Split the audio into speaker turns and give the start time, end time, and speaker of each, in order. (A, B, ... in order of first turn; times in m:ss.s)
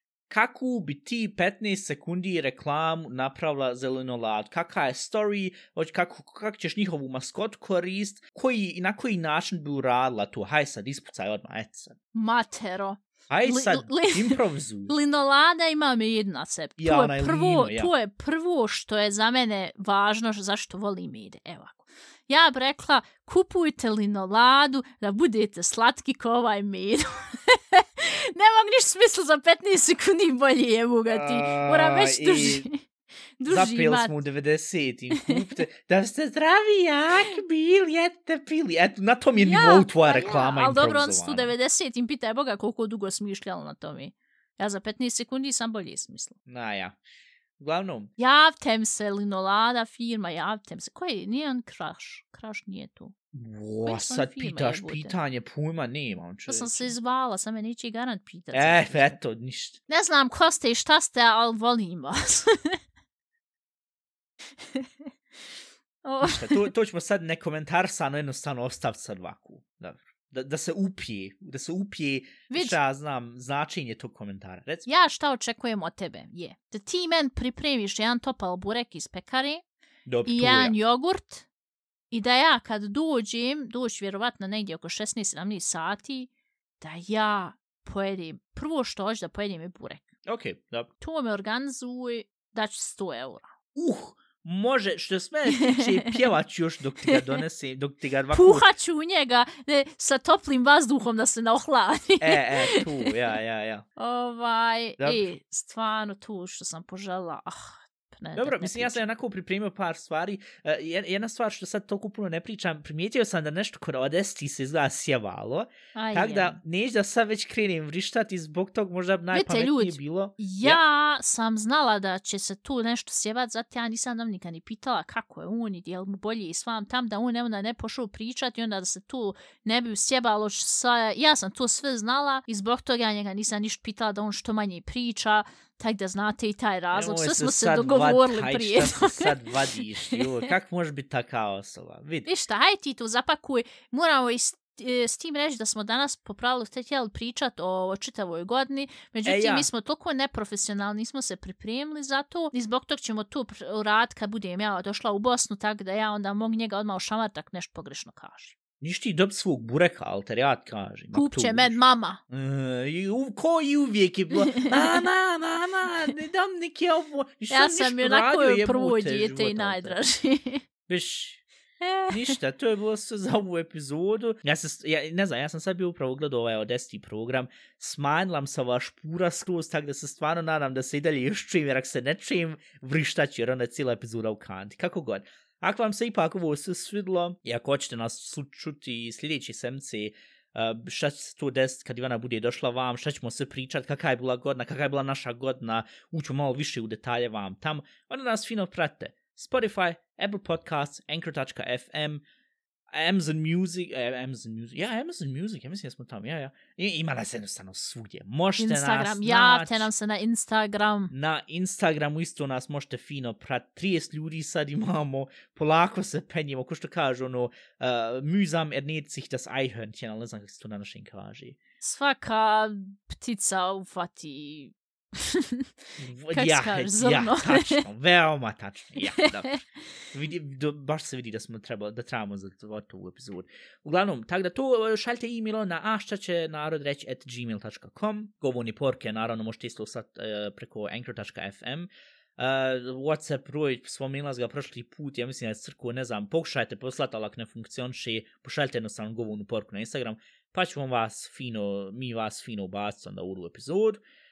0:00.3-0:12.0 A
0:12.1-0:32.8 B
0:13.3-0:14.9 A
0:16.8-0:17.9 A
0:31.1-0:32.7 A
0:33.4-0:34.2 B
0:33.5-0:41.5 A
0:35.1-0:35.4 B
0:39.3-0:46.3 B
0:46.5-0:47.0 A
0:47.6-0:48.1 A
0:48.2-0:53.1 B
0:53.3-0:56.9 A
0:53.8-0:55.2 B
0:56.5-0:59.2 B
0:58.5-0:59.8 A
0:59.9-1:02.8 B
1:04.6-1:05.1 B
1:06.0-1:06.7 B
1:06.2-1:14.9 A
1:12.5-1:12.8 B
1:14.8-1:19.6 B
1:20.0-1:20.8 A
1:20.2-1:21.4 B
1:22.1-1:30.1 B
1:30.2-1:30.9 A
1:31.0-1:33.5 B
1:33.7-1:38.7 A
1:35.5-1:36.1 B
1:37.1-1:37.4 B
1:38.3-1:43.1 B
1:42.2-1:43.8 A
1:44.0-1:49.0 B
1:45.0-1:45.2 A
1:48.4-2:00.8 A
1:55.9-1:56.6 B
1:59.3-2:20.5 B
2:16.9-2:22.3 A
2:22.2-2:38.5 B
2:29.2-2:29.7 A
2:38.8-2:41.8 A
2:41.1-2:42.2 B
2:42.3-2:50.0 A
2:44.3-2:45.0 B
2:47.5-2:50.6 B
2:50.9-2:51.4 A
2:51.8-2:52.4 B
2:52.1-3:22.2 A
3:22.9-3:29.9 A
3:28.6-3:31.1 B
3:31.1-3:41.6 A
3:41.8-3:45.6 B
3:46.0-4:14.0 A
3:46.3-3:47.8 B
3:49.0-3:49.6 B